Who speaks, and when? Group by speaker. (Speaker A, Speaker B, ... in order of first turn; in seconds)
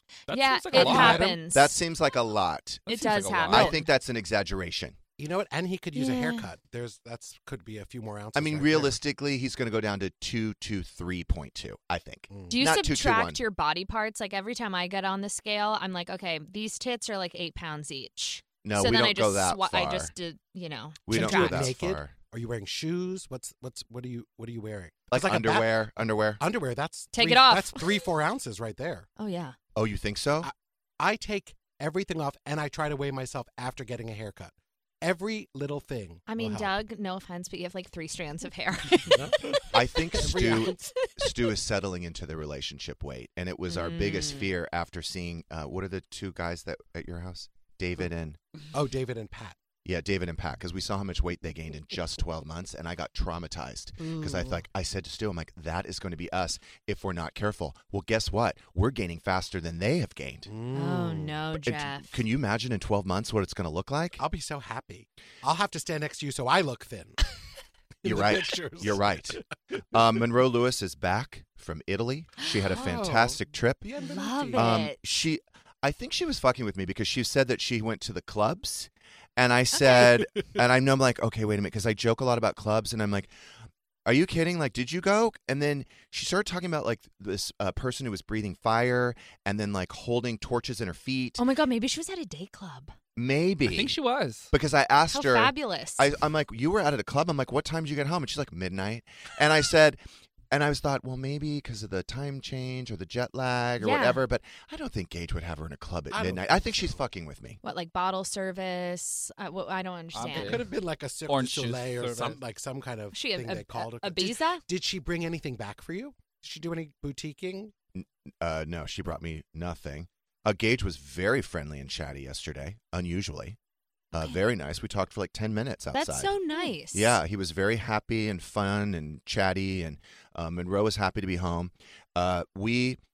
Speaker A: 0.3-1.3, 2.9-3.7, 93.7-94.5, 110.1-110.7, 111.3-112.4
Speaker B: 0.3-1.8, 2.9-3.8, 5.9-6.5, 12.5-21.7, 27.1-27.9, 29.2-29.6, 36.3-39.7, 40.5-40.9, 43.7-44.5, 54.0-54.6, 60.7-62.1, 72.4-72.8, 74.0-75.0, 91.4-92.9, 95.1-96.1, 103.8-104.2, 107.6-110.6, 113.1-114.6, 125.9-127.2
Speaker C: 0.7-1.4, 5.2-9.0, 12.3-12.6, 21.1-25.8, 26.4-29.1, 30.4-36.8, 39.1-40.9, 48.7-49.6, 60.5-61.5, 64.2-67.2, 68.0-69.4, 72.7-74.7, 106.1-107.0, 110.2-117.7
Speaker D: 1.0-5.0, 8.3-13.4, 18.6-20.1, 21.1-22.1, 25.1-26.4, 29.7-30.5, 39.7-48.4, 49.8-60.5, 61.6-64.2, 68.0-69.4, 69.9-73.8, 74.5-83.3, 84.0-91.4, 93.2-94.0, 94.5-107.6, 118.0-123.6, 124.1-126.4, 126.9-133.0